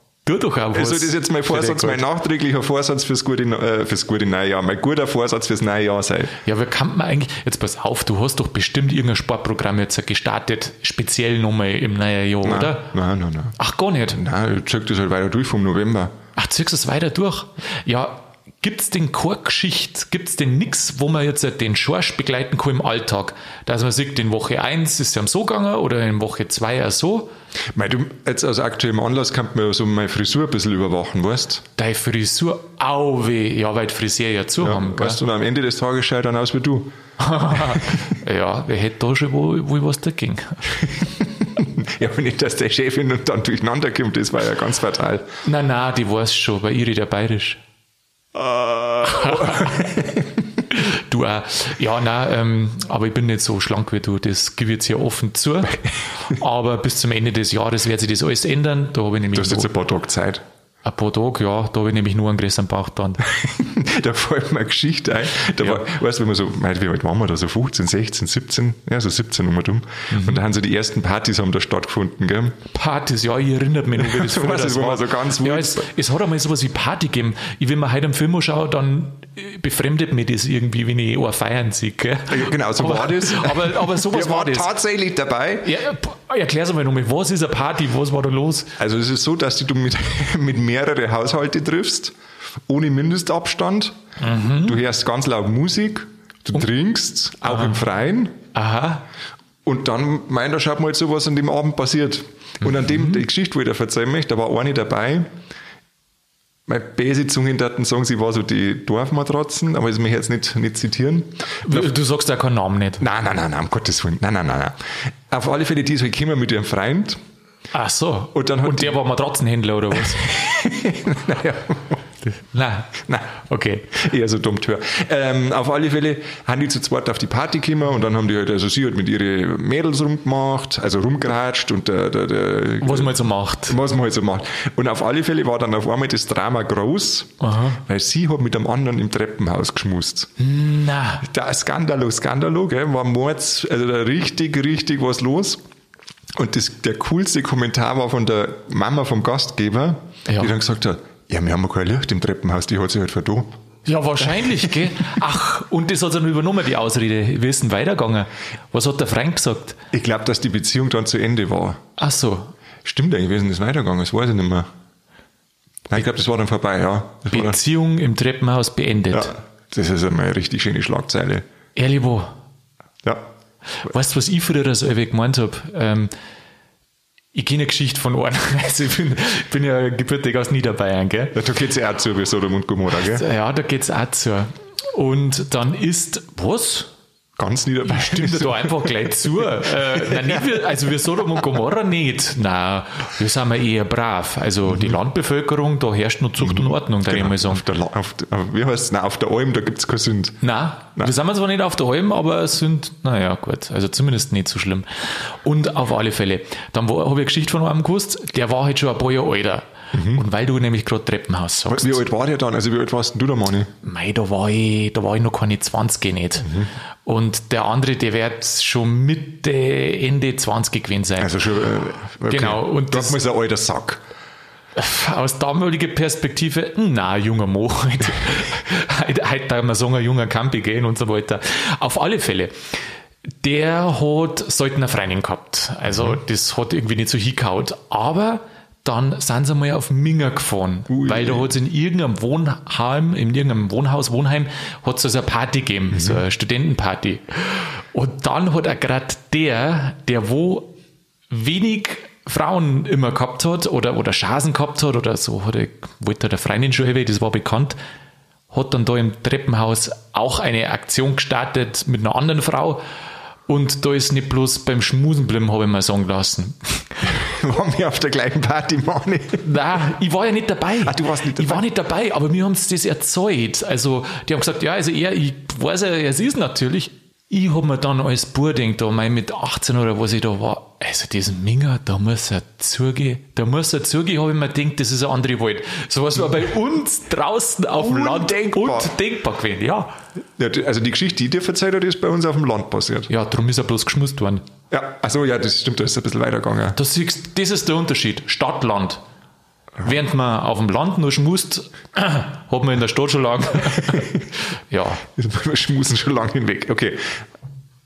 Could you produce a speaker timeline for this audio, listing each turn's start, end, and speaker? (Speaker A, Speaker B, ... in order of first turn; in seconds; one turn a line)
Speaker A: 0.3-2.0
Speaker B: 0.7-6.4
Speaker A: 6.5-12.9
Speaker B: 12.4-13.6
Speaker A: 13.6-14.2
Speaker B: 14.1-16.1
Speaker A: 16.4-27.3
Speaker B: 27.7-31.6
Speaker A: 31.8-35.2
Speaker B: 34.6-36.9
Speaker A: 37.2-40.6
Speaker B: 37.5-38.0
Speaker B: 40.8-45.3
Speaker A: 45.4-47.6
Speaker B: 48.3-50.6
Speaker A: 49.1-49.8
Speaker A: 50.7-59.7
Speaker B: 59.3-60.4
Speaker A: 60.9-63.2
Speaker B: 63.3-72.6
Speaker A: 70.1-70.4
Speaker A: 72.7-84.7
Speaker B: 74.0-75.9
Speaker B: 82.3-85.7
Speaker A: 85.6-88.7
Speaker B: 88.8-92.2
Speaker B: 92.7-94.0
Speaker A: 94.2-94.8
Speaker B: 94.6-98.4
Speaker A: 97.5-97.8
Speaker A: 98.5-99.0
Speaker B: 99.6-105.3
Speaker B: 106.7-111.9
Speaker A: 111.6-113.0
Speaker B: 113.0-114.8
Speaker B: 115.3-117.2
Speaker A: 117.7-120.3
Speaker B: 118.3-119.0
Speaker B: 119.9-122.0
Speaker A: 122.2-124.0
Speaker B: 123.0-123.3
Speaker B: 123.9-140.3
Speaker A: 132.8-133.8
Speaker A: 137.4-137.8
Speaker A: 140.4-141.3
Speaker B: 141.2-145.6
Speaker B: 146.4-153.6
Speaker A: 150.3-150.5
Speaker A: 153.9-159.8
Speaker B: 154.4-154.7
Speaker B: 159.9-161.8
Speaker A: 162.0-162.5
Speaker B: 162.8-164.7
Speaker B: 165.9-167.6
Speaker A: 167.3-169.3
Speaker B: 169.1-171.4
Speaker A: 171.8-172.3
Speaker B: 173.0-173.3
Speaker A: 173.8-176.1
Speaker A: 177.3-181.4
Speaker B: 181.3-183.3
Speaker A: 183.0-186.9
Speaker B: 187.4-189.1
Speaker A: 187.8-197.6
Speaker B: 189.7-190.6
Speaker B: 194.7-195.0
Speaker B: 196.4-200.4
Speaker A: 200.4-212.0
Speaker B: 209.9-210.2
Speaker B: 211.7-213.7
Speaker A: 213.8-221.4
Speaker B: 216.4-216.7
Speaker B: 221.2-224.0
Speaker A: 222.3-223.2
Speaker A: 224.8-232.5
Speaker A: 233.4-250.7
Speaker B: 240.9-241.5
Speaker B: 245.9-246.2
Speaker A: 251.3-257.8
Speaker A: 258.5-262.8
Speaker A: 263.5-266.9
Speaker B: 267.0-269.4
Speaker A: 269.4-289.9
Speaker B: 270.8-271.7
Speaker B: 287.8-288.9
Speaker B: 290.4-293.1
Speaker A: 293.1-294.5
Speaker B: 294.7-296.8
Speaker A: 296.8-299.0
Speaker A: 299.8-304.1
Speaker B: 303.9-304.2
Speaker A: 304.7-305.1
Speaker B: 305.1-307.1